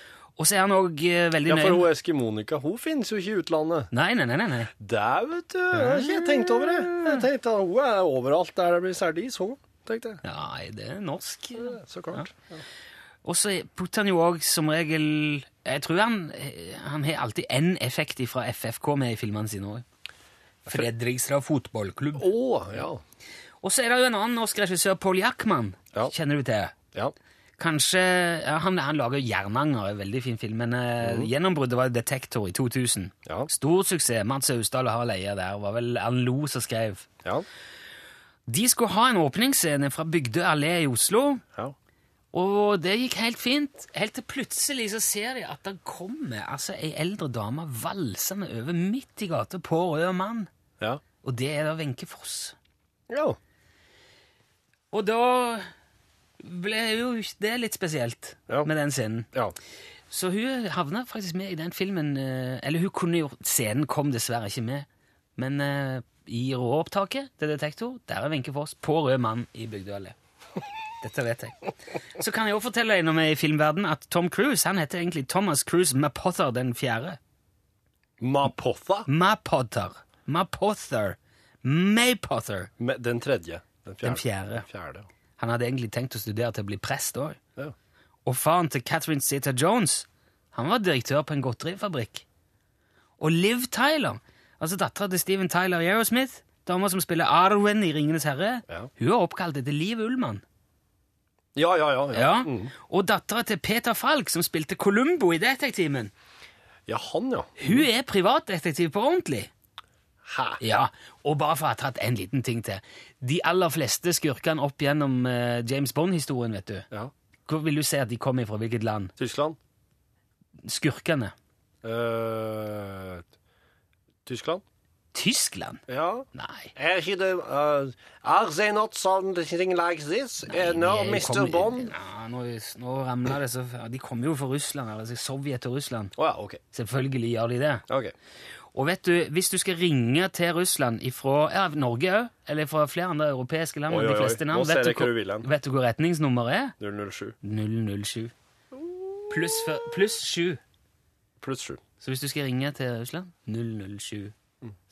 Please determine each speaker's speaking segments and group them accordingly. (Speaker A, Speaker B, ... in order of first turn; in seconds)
Speaker A: 0.4-1.9, 3.9-4.7, 5.7-7.2, 10.2-12.3, 13.2-19.8, 20.7-22.3, 23.6-26.8, 27.6-37.1, 38.5-41.4, 42.3-50.5, 51.2-52.5, 54.9-55.6, 56.4-59.3, 60.1-64.8, 65.4-70.2, 71.0-77.2, 79.1-82.7, 84.0-84.6, 85.4-87.4, 88.2-92.2, 93.2-100.4, 102.1-106.1, 107.6-109.5, 110.6-116.9, 117.5-119.1, 120.6-121.3, 125.1-126.7, 130.5-136.1, 136.7-137.8, 138.7-146.7, 147.4-148.3, 149.3-150.6, 152.0-154.3
Speaker B: 1.4-3.9, 4.8-10.2, 11.6-12.6, 22.2-23.0, 31.0-31.3, 53.1-53.4, 78.2-79.1, 82.8-85.1, 101.5-102.7, 106.9-107.9, 110.2-110.6, 119.2-119.6, 121.8-123.2, 124.2-124.6, 125.9-131.9, 136.2-136.6, 137.9-138.1, 143.9-145.5, 146.8-147.3, 148.7-149.3, 151.4-151.8